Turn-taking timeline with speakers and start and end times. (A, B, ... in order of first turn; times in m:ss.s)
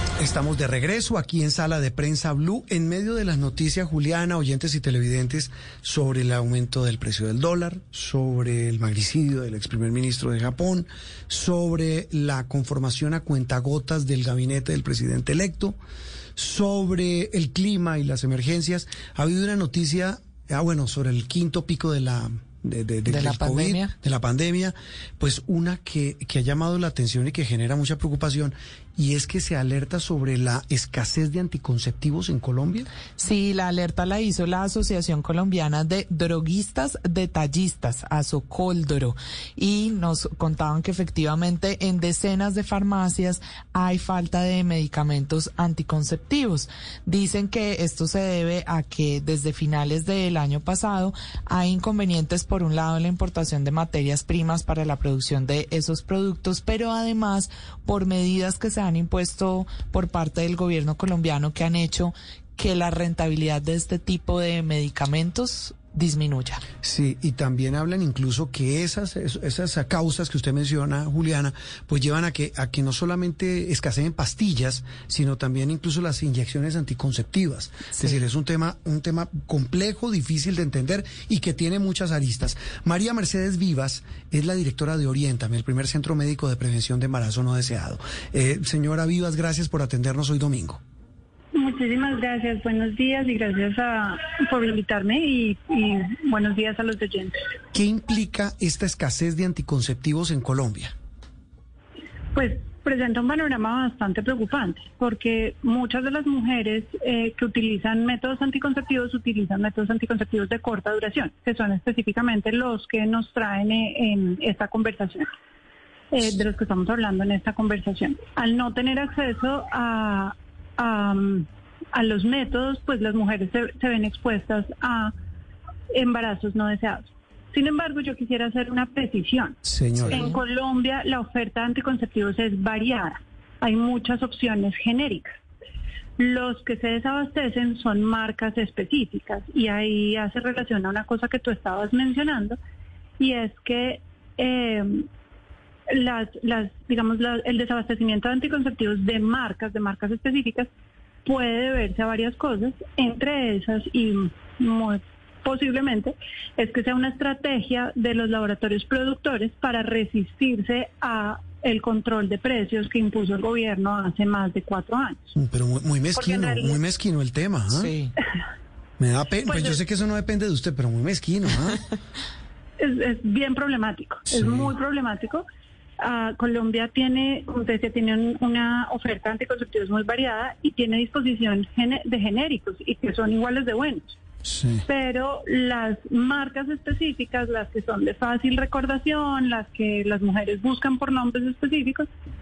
0:00.2-0:15.8 A
0:16.4-0:32.9 A
0:23.1-0:23.9 B
0:33.2-1:06.6 B
1:06.8-1:30.8 A
1:31.5-1:37.3 C
1:37.7-1:40.9 A
1:42.3-1:55.3 C
1:56.1-2:05.1 C
2:05.9-2:09.6 C
2:09.6-2:10.3 A
2:10.0-2:10.3 B
2:10.1-2:15.4 C
2:16.2-2:22.6 C
2:23.2-2:25.0 C
2:25.9-2:30.7 C
2:31.2-2:45.3 C
2:45.4-2:47.9 A
2:46.1-2:46.8 C
2:47.7-2:48.1 B
2:49.0-2:51.8 A
2:49.5-2:49.8 C
2:52.8-2:55.4 C
2:54.3-2:54.7 A
2:56.0-3:04.2 C
3:04.4-3:04.8 A
3:04.8-3:12.1 C